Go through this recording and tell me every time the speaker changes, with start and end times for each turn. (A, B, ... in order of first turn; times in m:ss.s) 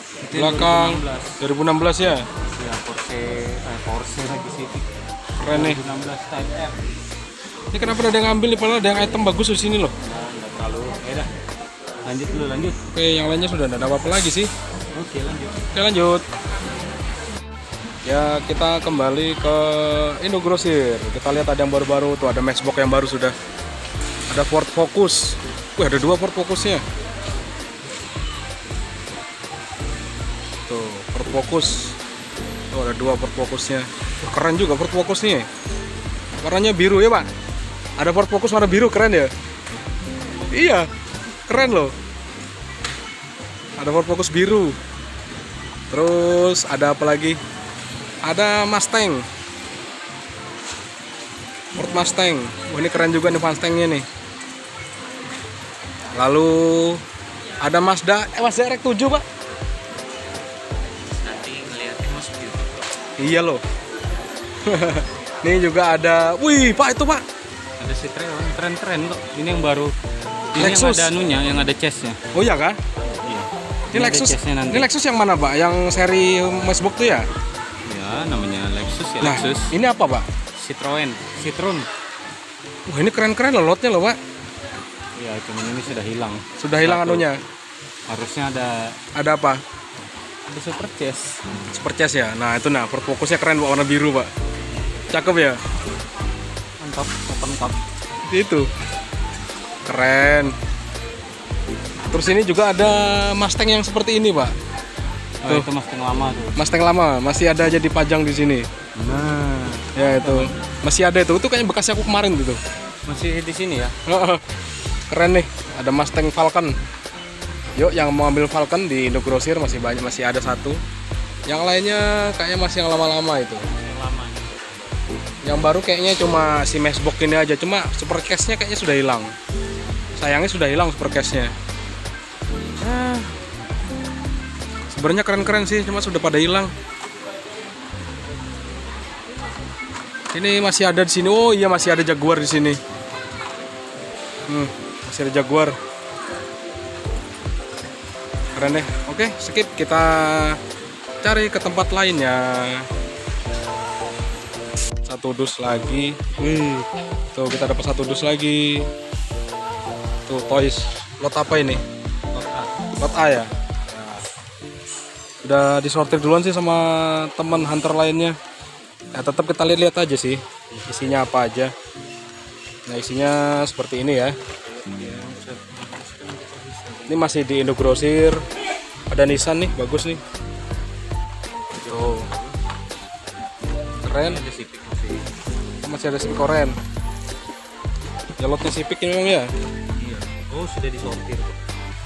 0:00.3-0:01.4 A
0:00.3-0:02.2 B
0:02.6-0:04.9 A
0:05.4-0:05.8 B
0:05.5-0:07.0 A
0:07.7-0:09.9 B
0:10.0-0:11.3 A
0:12.0-0:12.8 A
0:12.9-0:14.5 B
0:14.9-0:15.7 A
0:15.7-0:16.2 B
0:18.1-0:23.4 B
0:24.3-0:26.8 B
0:30.7-0:32.0 B
0:32.7-0:35.5 B
0:36.4-0:37.3 B
0:38.0-0:39.3 B
0:40.5-0:40.9 B
0:41.5-0:41.9 B
0:43.8-0:44.8 B
0:45.9-0:47.4 B
0:48.2-0:49.2 B
0:51.8-0:54.0 B
0:56.2-0:57.0 B
0:57.6-0:59.2 B
1:01.0-1:02.8 A
1:03.2-1:03.6 B
1:04.7-1:07.2 B
1:07.8-1:09.9 A
1:10.5-1:12.2 A
1:10.6-1:11.1 B
1:12.3-1:12.8 B
1:13.1-1:14.9 A
1:13.9-1:17.2 B
1:17.9-1:19.7 A
1:19.2-1:20.3 B
1:20.6-1:21.9 A
1:22.9-1:24.2 B
1:25.2-1:27.3 A
1:26.6-1:27.4 B
1:28.1-1:29.0 A
1:29.2-1:29.6 B
1:30.5-1:31.4 A
1:31.7-1:34.3 B
1:35.1-1:35.6 B
1:36.8-1:37.8 A
1:38.3-1:38.7 B
1:39.9-1:40.5 B
1:42.1-1:44.5 B
1:45.4-1:46.6 A
1:46.6-1:48.7 B
1:49.0-1:50.6 A
1:49.9-1:52.6 B
1:53.0-1:53.9 A
1:54.1-1:54.4 B
1:55.1-1:56.7 B
1:57.8-2:00.8 B
2:01.5-2:03.7 B
2:03.7-2:05.0 A
2:05.4-2:09.3 B
2:10.1-2:11.5 B
2:12.8-2:13.4 B
2:14.9-2:16.7 B
2:20.3-2:22.8 B
2:24.5-2:25.8 B
2:28.6-2:30.6 B
2:31.2-2:32.9 B
2:35.0-2:36.2 B
2:36.4-2:36.9 A
2:37.3-2:38.9 B
2:40.3-2:41.8 B
2:42.3-2:42.7 A
2:43.0-2:44.2 B
2:45.4-2:48.4 B
2:49.2-2:51.7 B
2:52.9-2:54.4 B
2:54.6-2:57.3 A
2:57.1-2:58.4 B
2:59.1-3:00.2 B
3:01.8-3:02.6 A
3:01.9-3:02.3 B
3:04.0-3:04.4 B
3:04.1-3:05.3 A
3:05.8-3:06.8 B
3:08.4-3:09.5 B
3:09.9-3:11.6 A